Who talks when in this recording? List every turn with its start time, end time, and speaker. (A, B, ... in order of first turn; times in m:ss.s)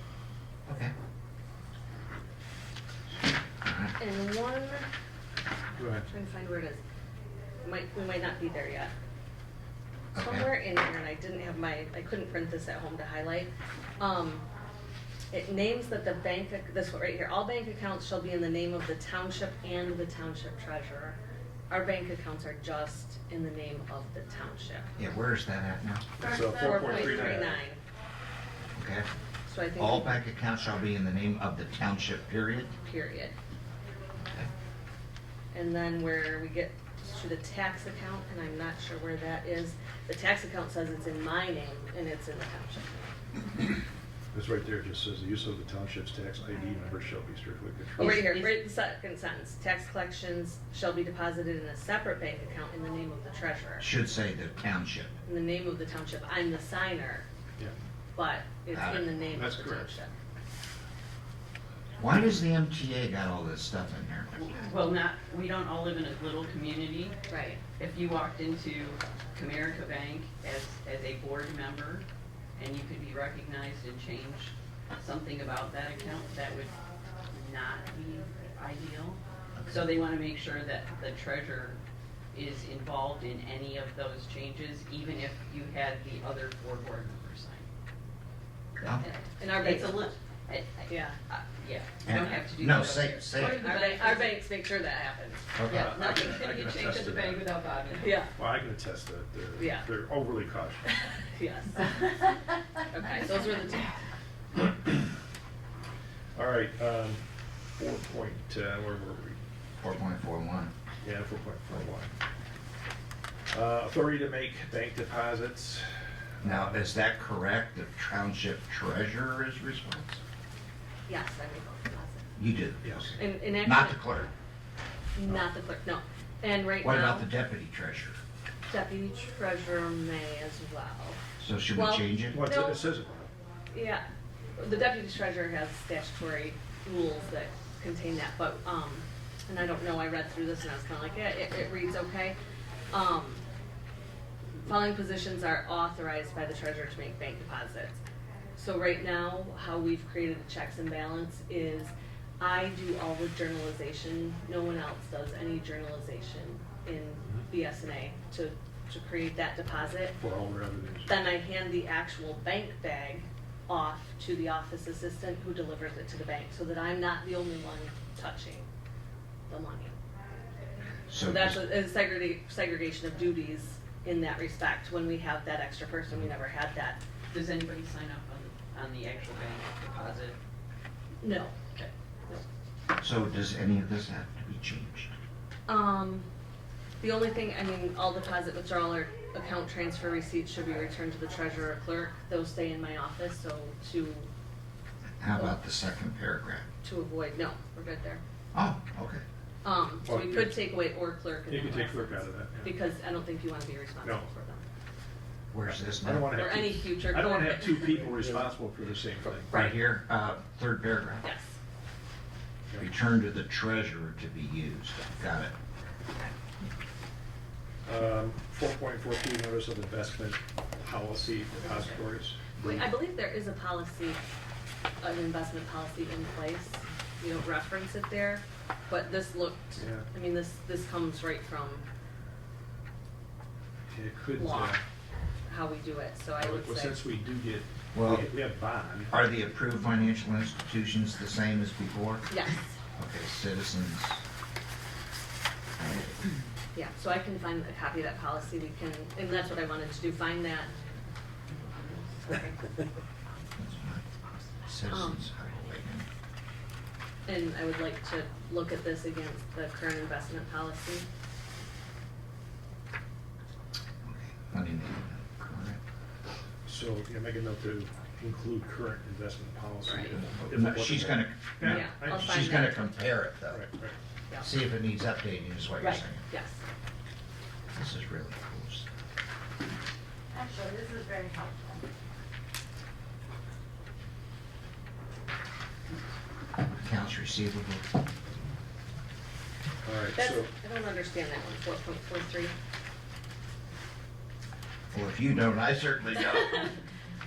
0:00.7-0:00.9 A
0:03.6-0:04.0 A
0:04.0-0:04.9 B
0:05.8-0:06.1 C
0:06.1-0:06.8 B
0:07.6-0:08.9 B
0:10.1-0:10.5 A
0:10.2-0:14.5 B
0:15.3-0:21.2 B
0:21.7-0:24.9 B
0:25.0-0:26.1 A
0:26.2-0:27.6 C
0:26.2-0:27.5 D
0:26.5-0:27.8 B
0:28.8-0:29.1 A
0:29.5-0:30.2 B
0:29.8-0:32.7 A
0:32.8-0:33.3 B
0:35.5-0:43.1 B
0:44.3-0:48.2 C
0:48.0-0:48.6 E
0:48.0-0:53.9 B
0:53.8-0:55.1 A
0:55.2-0:57.2 B
0:58.2-1:00.1 B
0:58.7-0:59.2 A
0:59.3-0:59.9 C
1:02.0-1:04.6 A
1:04.4-1:07.2 E
1:07.3-1:07.6 B
1:07.8-1:12.0 E
1:12.6-1:16.8 E
1:17.3-1:21.8 E
1:19.6-1:19.8 A
1:22.3-1:27.7 E
1:28.9-1:30.1 B
1:29.0-1:34.4 E
1:30.9-1:31.2 B
1:32.1-1:33.8 A
1:33.4-1:35.4 B
1:35.6-1:36.0 A
1:35.7-1:37.4 C
1:35.7-1:38.2 E
1:38.0-1:38.3 B
1:38.4-1:40.8 C
1:39.6-1:39.9 B
1:40.9-1:43.9 B
1:44.6-1:44.9 C
1:46.4-1:47.2 C
1:47.8-1:49.4 C
1:49.8-1:50.7 A
1:51.0-1:52.1 C
1:53.5-1:56.8 C
1:56.4-2:00.2 A
2:01.1-2:02.3 B
2:02.4-2:04.3 A
2:02.8-2:03.2 C
2:03.2-2:04.0 B
2:05.2-2:07.3 B
2:06.8-2:08.2 A
2:08.7-2:11.2 B
2:11.4-2:12.4 A
2:11.7-2:12.8 B
2:12.3-2:13.3 C
2:13.7-2:14.0 B
2:14.6-2:22.4 B
2:22.9-2:23.4 B
2:24.6-2:28.0 B
2:28.6-2:40.2 B
2:40.2-2:41.1 C
2:41.1-2:48.7 B
2:49.5-2:50.0 B
2:51.1-2:51.6 A
2:51.2-2:57.0 B
2:57.3-3:00.4 E
3:01.2-3:01.6 B
3:03.0-3:05.1 A
3:05.7-3:06.3 B
3:07.0-3:14.3 B
3:15.2-3:16.7 A
3:16.8-3:18.2 B
3:18.5-3:19.2 A
3:19.6-3:24.6 B
3:20.0-3:20.7 C
3:21.5-3:22.7 C
3:24.0-3:24.3 C
3:25.5-3:26.4 A
3:25.8-3:29.6 C
3:26.3-3:28.2 B
3:29.5-3:29.8 B
3:29.5-3:31.3 A
3:31.2-3:31.6 B
3:32.8-3:35.5 A
3:37.8-3:42.5 C
3:41.6-3:42.0 B
3:42.6-3:44.2 B
3:45.0-3:51.8 B
3:49.8-3:50.1 C
3:53.9-3:54.8 C
3:54.4-3:54.8 B
3:55.5-3:57.0 B
3:56.4-3:59.1 C
3:57.9-3:58.3 A
3:59.1-4:02.4 A
4:02.3-4:02.7 B
4:03.0-4:04.2 A
4:05.8-4:06.2 A
4:06.8-4:10.7 B
4:12.2-4:12.6 B
4:13.6-4:14.0 A
4:14.7-4:16.1 A
4:14.9-4:15.2 B
4:17.3-4:21.1 B
4:24.0-4:25.8 A
4:26.6-4:32.4 C
4:29.9-4:30.1 B
4:30.0-4:33.6 A
4:31.6-4:32.9 B
4:33.5-4:34.0 C
4:34.4-4:36.3 A
4:35.8-4:36.6 B
4:37.7-4:38.9 A
4:40.4-4:41.8 D
4:46.8-4:47.9 A
4:49.8-4:50.5 C
4:50.1-4:52.5 B
4:54.9-4:56.8 A